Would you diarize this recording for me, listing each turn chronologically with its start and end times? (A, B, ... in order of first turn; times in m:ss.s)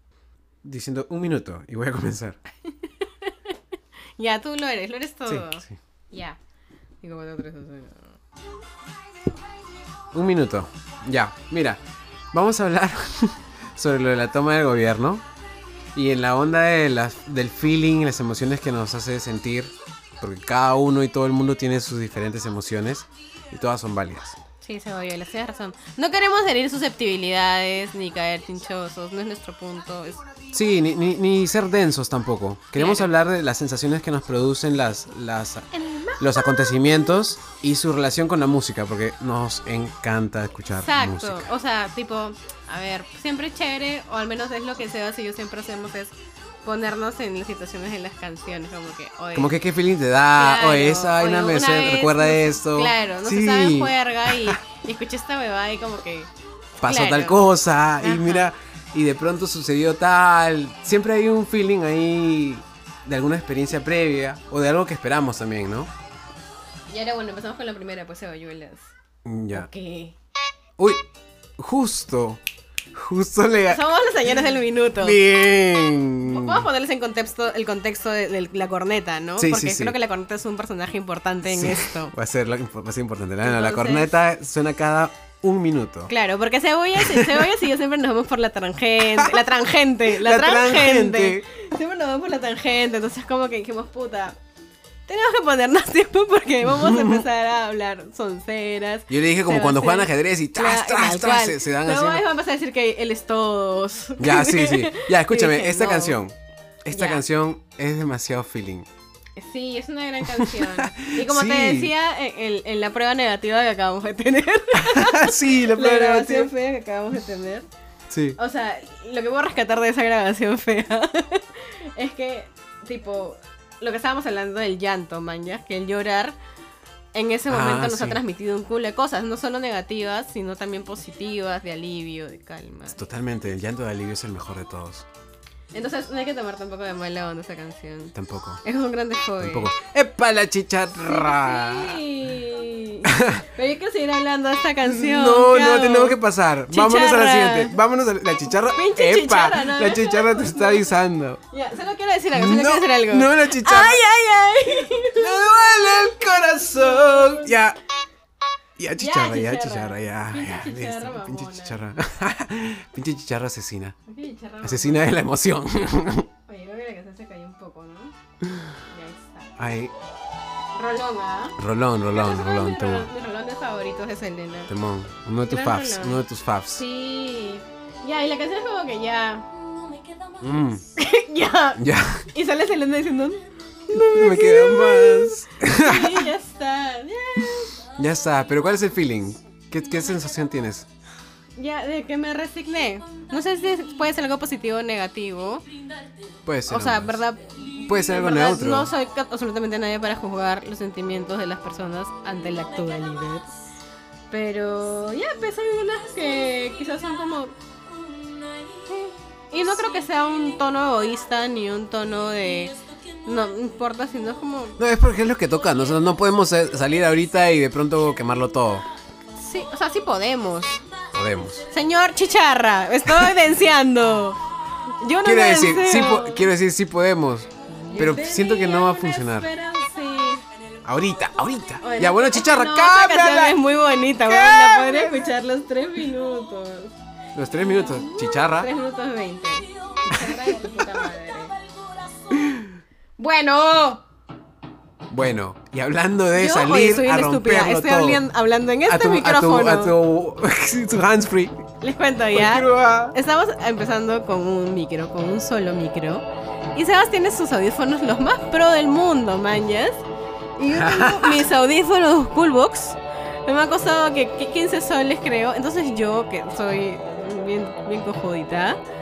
0:00.6-0:02.4 A
0:02.8-0:03.6 B
0:04.2-0:06.4 B
0:05.3-0:05.7 A
0:07.0-0:08.1 B
0:10.1-0:11.8 A
0:12.3-0:15.2 A
0:16.0-0:24.4 A
0:24.6-0:30.2 B
0:30.5-0:41.5 A
0:32.8-0:33.1 B
0:35.7-0:36.7 B
0:40.8-0:46.1 B
0:46.6-0:49.5 B
0:49.4-0:54.6 A
0:50.4-0:56.3 B
0:56.8-1:05.9 A
0:56.8-0:57.4 B
0:58.0-0:58.5 B
1:06.9-1:08.9 B
1:09.2-1:09.7 A
1:09.5-1:10.1 B
1:10.8-1:11.0 A
1:11.6-1:12.4 A
1:12.9-1:13.8 A
1:13.7-1:15.2 B
1:15.0-1:16.7 A
1:16.2-1:22.1 B
1:19.4-1:20.0 A
1:21.5-1:26.1 A
1:23.4-1:24.1 B
1:26.1-1:34.4 B
1:27.0-1:27.6 A
1:29.2-1:29.5 A
1:30.1-1:31.4 A
1:35.1-1:46.2 B
1:36.7-1:37.2 A
1:39.1-1:42.3 A
1:44.2-1:48.9 A
1:46.9-1:47.2 B
1:49.4-1:57.7 B
1:50.3-1:51.9 A
1:54.8-1:56.5 A
1:58.1-1:58.4 A
1:58.4-2:06.4 B
2:07.1-2:13.0 B
2:07.5-2:08.2 A
2:12.9-2:15.0 A
2:15.7-2:19.7 B
2:18.2-2:18.6 A
2:19.4-2:22.0 A
2:21.0-2:26.2 B
2:23.1-2:23.4 A
2:24.8-2:31.4 A
2:26.7-2:27.8 B
2:28.7-2:30.9 B
2:31.5-2:37.5 B
2:32.3-2:34.0 A
2:35.1-2:37.8 A
2:38.8-2:44.0 A
2:39.0-2:41.8 B
2:44.1-2:45.0 B
2:44.6-2:46.3 A
2:46.5-2:48.1 B
2:48.4-2:48.7 A
2:48.9-2:49.5 B
2:49.6-2:49.9 A
2:50.8-2:51.6 B
2:51.6-2:53.1 A
2:52.1-2:54.7 B
2:54.7-2:56.8 A
2:55.5-2:56.2 B
2:56.7-3:00.3 B
3:00.4-3:00.8 A
3:00.9-3:07.8 B
3:01.8-3:02.3 A
3:03.9-3:06.3 A
3:08.0-3:10.9 A
3:11.6-3:15.7 B
3:16.4-3:17.2 A
3:16.7-3:23.5 B
3:17.9-3:18.9 A
3:24.3-3:27.5 B
3:28.9-3:34.8 B
3:34.8-3:38.9 A
3:39.4-3:40.8 B
3:41.1-3:41.7 A
3:41.7-3:44.4 B
3:45.0-3:46.5 B
3:45.2-3:49.5 A
3:47.9-3:50.4 B
3:50.8-3:53.6 A
3:51.8-3:56.9 B
3:54.2-3:55.2 A
3:57.3-3:58.7 A
3:57.7-4:01.6 B
4:00.1-4:00.8 A
4:02.3-4:02.7 A
4:03.2-4:04.0 B
4:05.1-4:08.2 A
4:06.3-4:10.0 B
4:08.9-4:11.6 A
4:11.8-4:20.0 B
4:12.3-4:13.2 A
4:20.6-4:28.8 B
4:20.7-4:21.5 A